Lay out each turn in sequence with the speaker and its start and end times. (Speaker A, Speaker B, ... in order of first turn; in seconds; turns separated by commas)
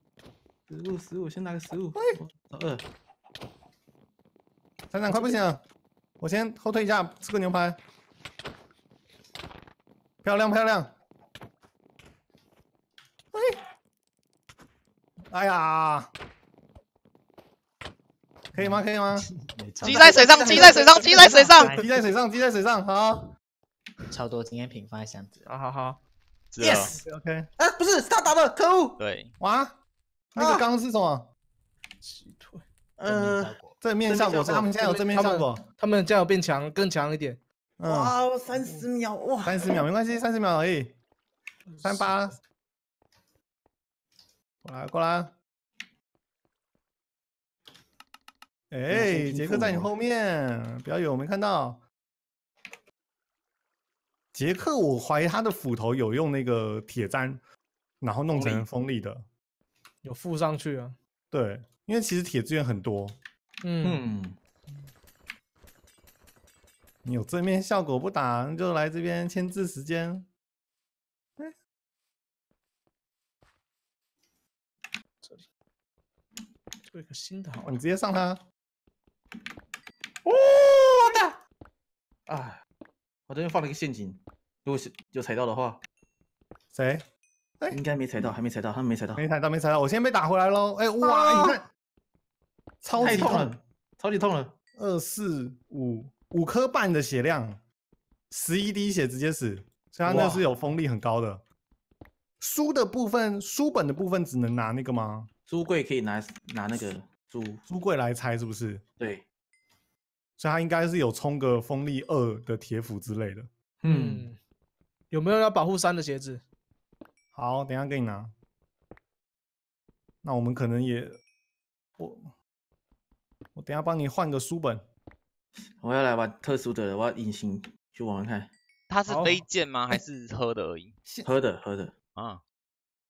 Speaker A: 0.7-2.9, Speaker B: 4.9-5.6, Speaker B: 6.2-7.8, Speaker B: 10.2-10.9, Speaker B: 13.3-13.6, Speaker B: 15.3-16.1, Speaker B: 18.5-19.3, Speaker C: 18.5-20.2, Speaker D: 19.8-21.7, Speaker A: 19.9-21.1, Speaker B: 20.5-20.8, Speaker C: 21.6-22.1, Speaker B: 21.7-23.3, Speaker C: 24.1-25.5, Speaker E: 25.5-26.0, Speaker D: 26.5-26.9, Speaker A: 26.6-27.0, Speaker B: 27.0-27.5, Speaker A: 27.6-29.0, Speaker D: 29.0-29.3, Speaker B: 29.4-29.8, Speaker B: 30.3-31.3, Speaker A: 30.4-30.7, Speaker E: 32.0-32.6, Speaker A: 33.0-33.5, Speaker C: 33.0-33.8, Speaker B: 33.8-35.6, Speaker A: 34.1-35.0, Speaker E: 35.1-37.4, Speaker B: 37.8-38.1, Speaker A: 37.9-39.8, Speaker B: 39.4-41.0, Speaker E: 41.7-42.2, Speaker B: 41.8-42.4, Speaker B: 44.6-45.3, Speaker B: 48.7-51.8, Speaker C: 48.9-49.9, Speaker B: 54.3-57.4, Speaker B: 58.0-59.2, Speaker A: 58.3-58.6, Speaker E: 60.0-61.0, Speaker B: 61.3-63.2, Speaker E: 63.6-64.0, Speaker A: 63.8-64.4, Speaker B: 67.0-70.3, Speaker E: 75.2-75.5, Speaker E: 76.8-77.8, Speaker B: 77.6-78.4, Speaker A: 80.2-81.4, Speaker A: 82.3-82.6, Speaker A: 83.3-85.8, Speaker B: 86.7-87.1, Speaker A: 87.7-89.2, Speaker B: 89.2-91.7, Speaker A: 91.0-91.6, Speaker B: 92.8-93.6, Speaker A: 93.0-94.5, Speaker B: 94.8-97.6, Speaker B: 98.3-101.4, Speaker A: 100.0-100.5, Speaker B: 102.4-105.3, Speaker A: 105.5-107.6, Speaker B: 107.7-108.8, Speaker A: 109.0-109.2, Speaker B: 110.4-113.5, Speaker A: 113.8-114.3, Speaker E: 113.9-114.4, Speaker E: 115.1-116.4, Speaker B: 117.3-118.3, Speaker B: 120.2-121.2, Speaker B: 122.0-122.3, Speaker B: 123.5-124.9, Speaker A: 125.8-128.5, Speaker D: 128.9-130.9, Speaker E: 129.1-129.4, Speaker A: 131.2-131.9, Speaker D: 132.2-132.4